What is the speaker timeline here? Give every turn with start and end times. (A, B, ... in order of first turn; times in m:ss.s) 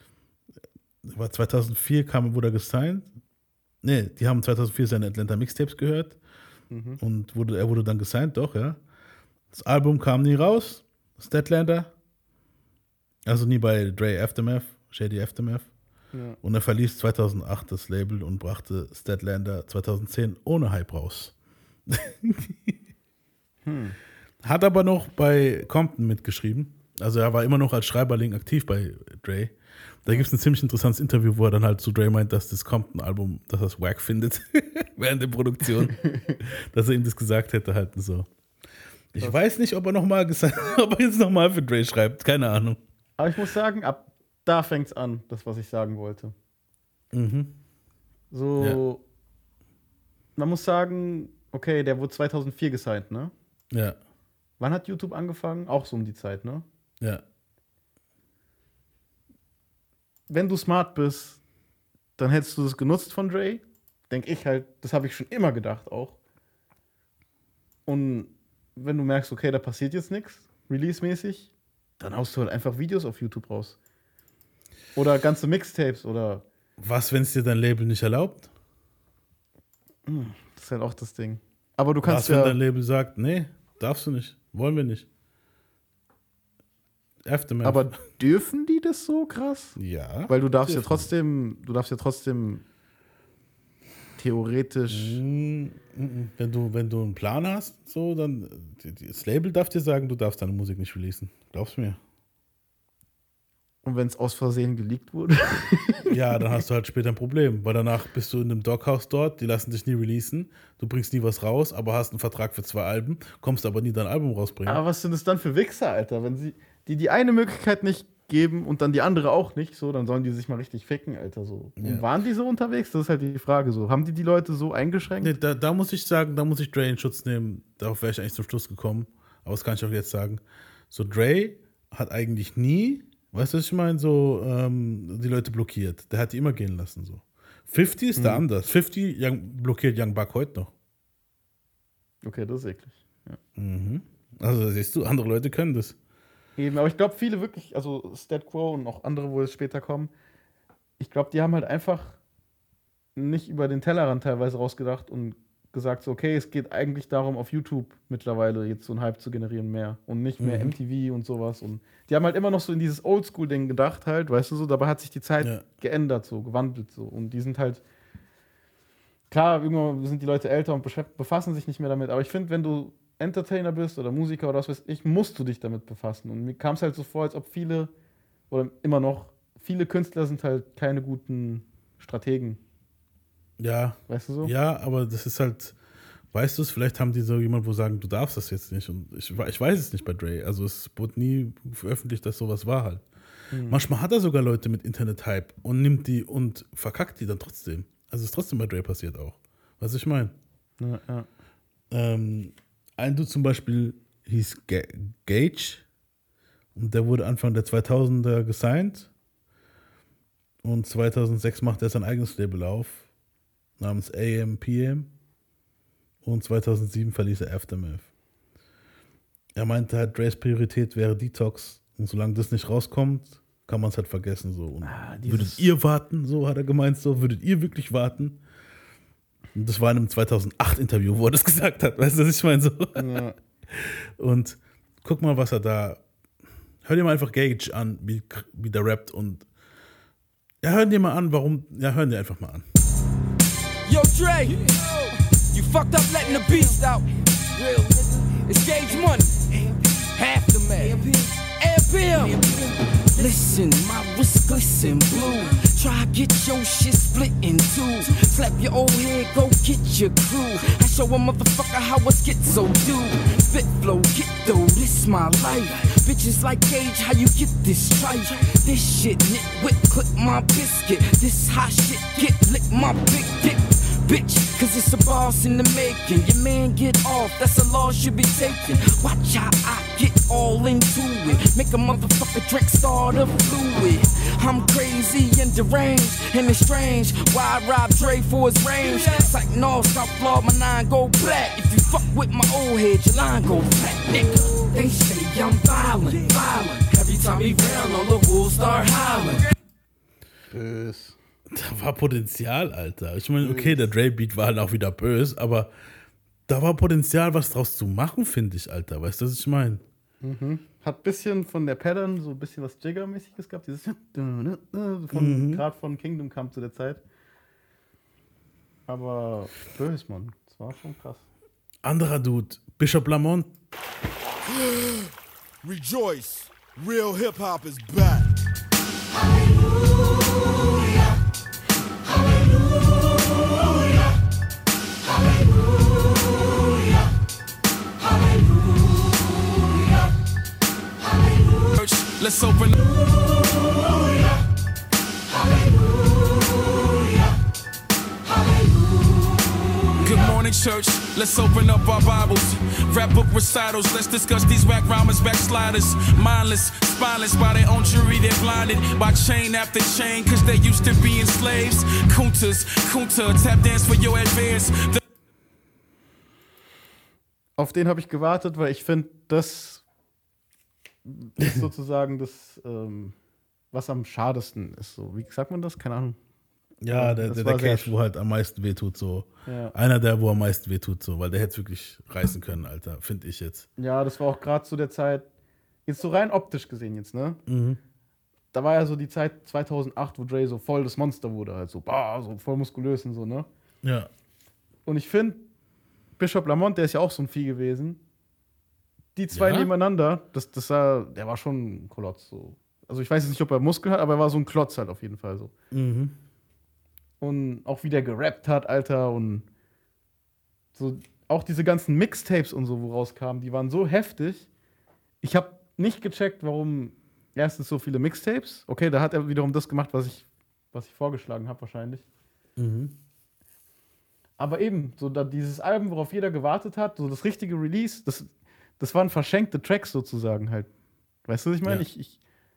0:01.1-0:03.1 A
0:03.8-0:06.2 A
0:06.7-0:07.0 B
0:07.0-0:08.8 A
0:09.5-0:11.9 A
0:13.3-0:15.7 A
0:16.1-0:16.4 B
0:16.4-0:21.3 A
0:21.9-0:22.7 A
0:23.6-0:24.0 B
0:24.4-0:29.5 A
0:30.0-0:38.3 A
0:35.8-0:36.4 B
0:39.1-0:42.8 A
0:43.2-0:46.3 B
0:47.1-0:47.6 A
0:48.3-0:49.0 B
0:50.4-0:53.3 B
0:53.7-0:54.0 A
0:54.6-0:56.7 B
1:00.3-1:01.4 B
1:02.2-1:06.2 B
1:07.9-1:13.8 B
1:15.0-1:16.4 B
1:16.8-1:18.5 A
1:20.1-1:22.6 B
1:22.0-1:25.1 A
1:27.3-1:27.9 A
1:27.6-1:29.8 B
1:29.8-1:31.1 A
1:30.3-1:32.6 B
1:34.2-1:35.2 B
1:34.9-1:42.0 A
1:43.8-1:46.5 B
1:46.1-1:54.8 A
1:54.7-2:05.4 B
2:01.8-2:02.0 A
2:05.2-2:20.7 A
2:18.2-2:18.4 B
2:22.2-2:23.4 B
2:23.6-2:26.0 A
2:26.6-2:30.1 B
2:31.0-2:32.2 B
2:33.2-2:47.8 B
2:40.4-2:40.8 A
2:49.3-2:57.9 B
2:58.5-3:02.6 B
3:03.6-3:05.8 A
3:04.1-3:04.5 B
3:06.3-3:13.0 A
3:13.5-3:13.8 B
3:13.7-3:20.3 A
3:20.8-3:21.3 B
3:21.9-3:25.8 A
3:26.8-3:29.1 A
3:30.6-3:33.1 A
3:33.8-3:35.1 A
3:36.2-3:38.1 A
3:39.6-3:48.4 A
3:44.8-3:45.7 B
3:49.5-3:53.1 A
3:53.0-3:53.4 B
3:53.7-3:56.0 A
3:56.8-3:59.5 A
4:00.6-4:02.6 A
4:03.9-4:04.9 C
4:05.5-4:08.1 C
4:08.7-4:09.4 C
4:10.2-4:12.4 C
4:13.2-4:59.4 C
5:00.5-5:05.7 A
5:03.4-5:03.9 B
5:06.5-5:09.8 A
5:10.2-5:17.0 B
5:15.1-5:15.6 A
5:18.9-5:21.3 B
5:21.8-5:23.5 A
5:25.6-5:28.2 D
5:41.7-5:42.9 E
5:50.0-6:05.0 E
6:07.6-6:09.8 B
6:11.0-6:13.2 B
6:13.7-6:16.2 B
6:16.8-6:23.7 A
6:16.9-6:18.0 B
6:19.5-6:19.8 B
6:23.8-6:25.3 B
6:25.9-6:27.4 B
6:27.5-6:27.8 A
6:28.5-6:33.5 B
6:33.8-6:34.1 A
6:34.9-6:35.4 B
6:36.2-6:38.0 B
6:39.2-6:45.5 B
6:39.3-6:39.7 A
6:45.7-6:46.2 A
6:47.2-6:49.5 B
6:50.8-6:54.5 B
6:55.2-7:02.0 B
7:02.6-7:03.0 A
7:04.4-7:10.7 B
7:11.3-7:12.2 B